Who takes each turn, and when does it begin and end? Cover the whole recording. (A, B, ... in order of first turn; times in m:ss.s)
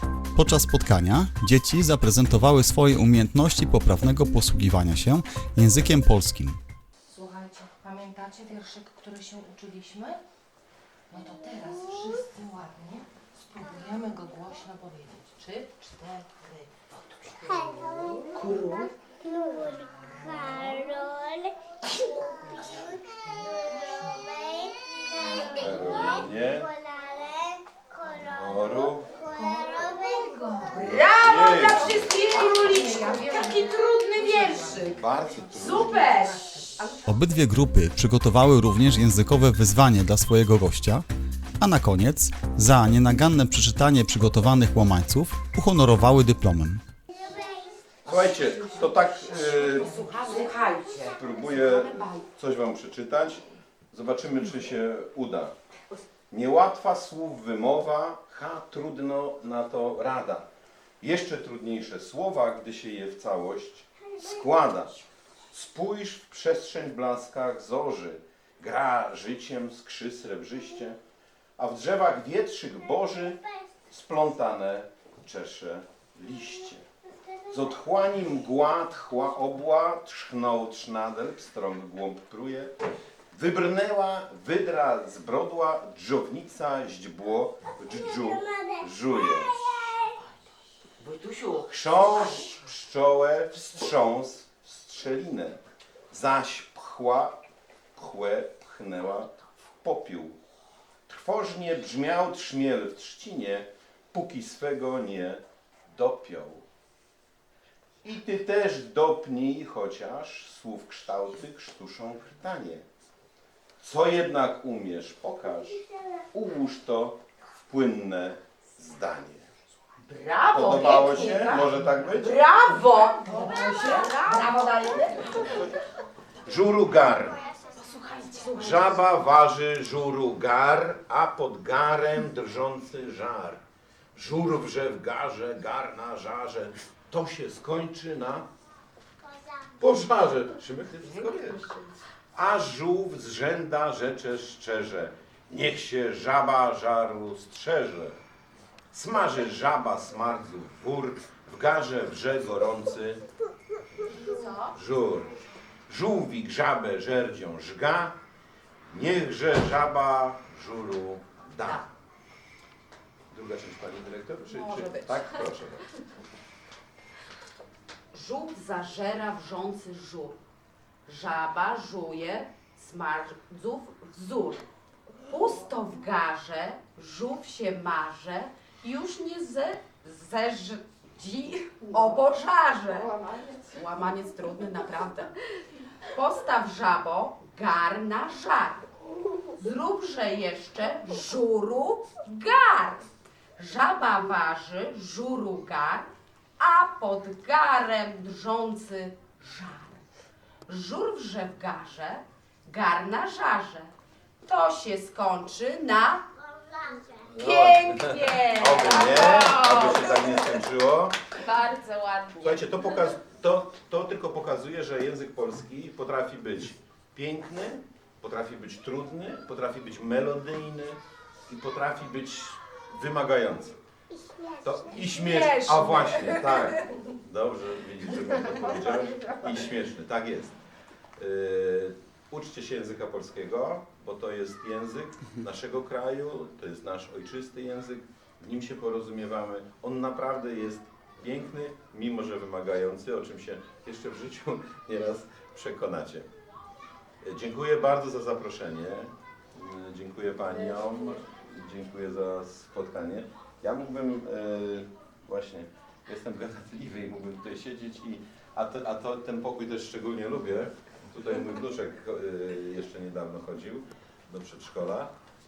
0:00.4-0:06.6 A
0:07.1-0:10.2 B
0:11.1-0:18.9 B
0:17.4-0:30.8 C
0:18.4-0:18.8 D
0:19.6-0:20.9 B
0:22.2-0:24.3 B
0:25.2-0:26.2 B
0:25.6-0:26.7 E
0:28.3-0:29.1 E
0:29.2-0:31.0 B
0:30.6-0:37.1 D
0:31.0-0:32.3 E
0:31.7-0:36.8 B
0:34.8-0:36.1 E
0:37.1-0:41.0 A
0:41.6-0:46.8 A
0:47.2-0:47.8 C
0:48.0-0:50.0 E
0:48.1-0:50.7 B
0:49.4-0:52.3 D
0:51.0-0:55.6 E
0:56.3-1:00.5 E
1:01.0-1:05.0 E
1:05.5-1:11.0 E
1:11.6-1:16.8 E
1:17.5-1:22.8 E
1:23.3-1:29.9 E
1:27.8-1:30.2 C
1:31.0-1:32.5 D
1:31.6-1:35.6 E
1:36.1-1:37.4 E
1:38.0-1:40.4 E
1:41.1-1:46.6 E
1:48.0-1:52.9 E
1:53.8-1:59.5 E
2:00.1-2:05.7 D
2:00.5-2:02.4 E
2:03.3-2:05.3 B
2:06.4-2:07.4 E
2:07.8-2:08.9 B
2:08.0-2:08.9 D
2:08.6-2:13.6 E
2:14.1-2:18.5 E
2:19.2-2:19.6 C
2:19.8-2:21.6 E
2:21.0-2:21.9 D
2:22.3-2:28.2 E
2:28.9-2:33.2 E
2:34.0-2:34.8 D
2:34.7-2:35.3 E
2:35.9-2:38.2 E
2:38.9-2:41.9 E
2:43.3-2:45.9 E
2:44.5-2:45.4 D
2:48.1-2:50.4 D
2:51.1-2:54.7 D
2:55.3-3:08.9 D
3:09.5-3:13.0 D
3:13.6-3:20.1 D
3:20.7-3:26.2 D
3:26.4-3:27.3 C
3:27.2-3:31.2 E
3:27.4-3:30.6 D
3:31.4-3:33.1 D
3:32.4-3:43.8 E
3:44.1-3:45.1 C
3:44.6-3:50.6 E
3:45.1-3:46.8 D
3:51.2-4:06.3 E
4:07.2-4:25.1 E